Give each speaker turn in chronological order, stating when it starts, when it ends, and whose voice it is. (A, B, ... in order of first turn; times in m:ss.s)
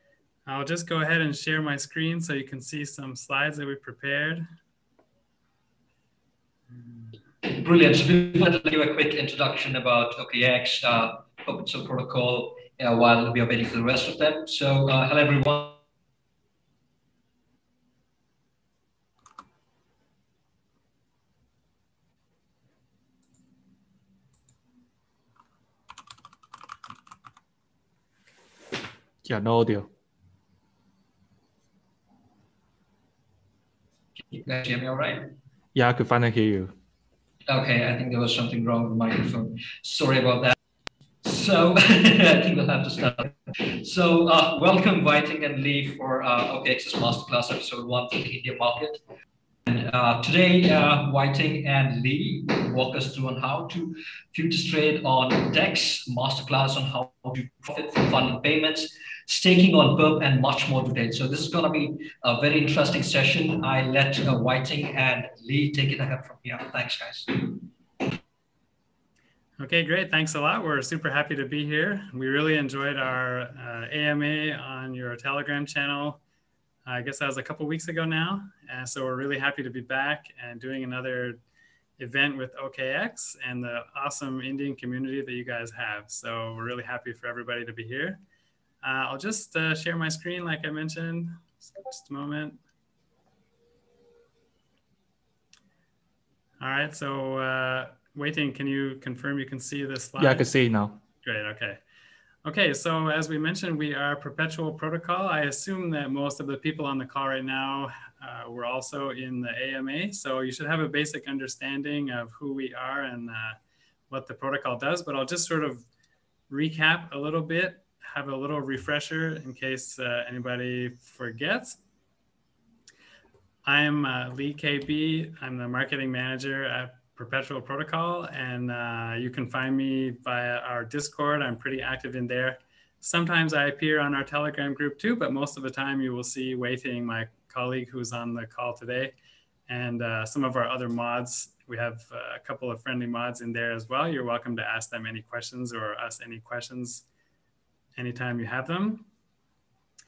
0:00.4-0:04.4 A
0:07.4-0:15.8 B
0:29.2-0:29.9 C
0:34.2-0:35.3 B
0:35.7-0:36.7 C
0:37.5-0:40.5 B
0:41.2-0:49.0 B
0:49.7-1:07.6 B
1:09.6-1:16.2 A
1:16.8-1:21.4 A
1:22.0-1:28.2 A
1:28.8-1:32.6 A
1:36.6-1:40.5 A
1:40.2-1:41.0 C
1:41.2-1:41.8 A
1:42.4-1:55.8 A
1:56.5-2:01.8 A
2:03.6-2:19.1 A
2:19.7-2:27.0 A
2:28.0-2:29.0 A